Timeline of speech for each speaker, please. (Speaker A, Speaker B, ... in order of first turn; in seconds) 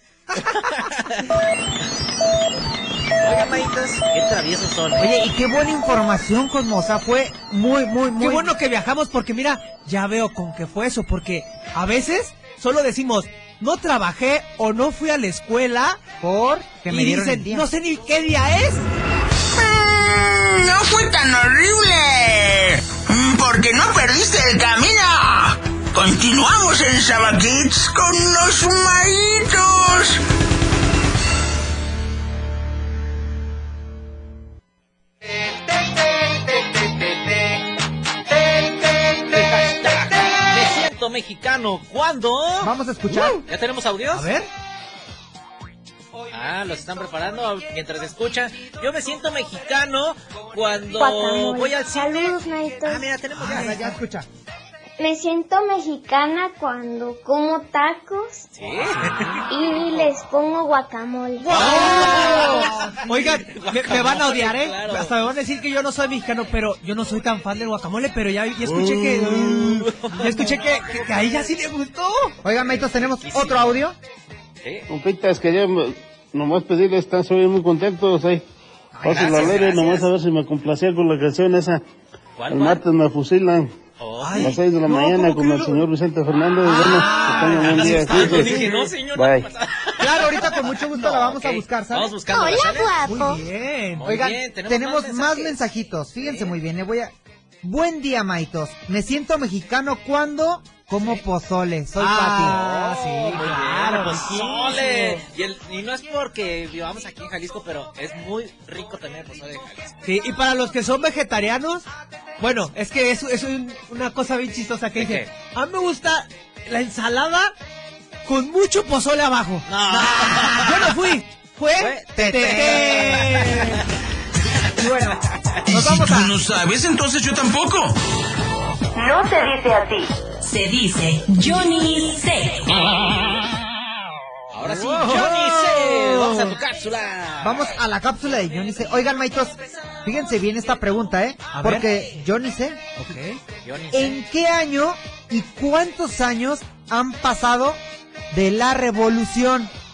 Speaker A: 0.3-0.7, 8.2-16.0, 16.9-18.9, 44.1-44.5, 53.3-54.0, 58.8-59.4, 61.4-72.3, 79.0-79.5, 84.2-85.8, 86.6-88.8, 93.0-94.0, 102.0-105.2, 110.0-111.9, 112.4-117.5, 118.2-119.7, 120.2-123.8, 134.8-135.2, 141.5-141.9, 143.0-143.4
Speaker B: 3.2-5.1, 39.3-42.7, 43.5-44.3, 46.3-53.7, 58.5-60.1, 61.5-65.2, 69.5-70.8, 72.6-73.8, 79.1-80.1, 82.4-82.8, 84.0-84.5, 87.4-93.0, 94.0-96.6, 102.4-110.0, 115.0-115.3, 119.7-121.0, 121.8-123.6, 134.5-137.8, 143.6-144.2
Speaker C: 5.0-8.5, 16.2-17.7, 42.6-43.5, 53.5-54.3, 62.2-62.7, 72.4-74.0, 90.0-92.1, 94.0-102.6, 120.0-120.6, 122.2-123.3, 124.8-126.3, 137.4-142.8, 143.9-147.8, 148.3-149.7
Speaker D: 19.6-23.8, 24.9-25.4, 25.9-30.1
Speaker E: 51.0-53.2, 55.0-58.5, 59.5-62.6, 92.3-93.4
Speaker F: 68.7-69.5, 74.9-78.5, 79.0-81.8, 82.5-83.7, 84.4-89.5
Speaker G: 125.7-128.0
Speaker H: 130.4-132.7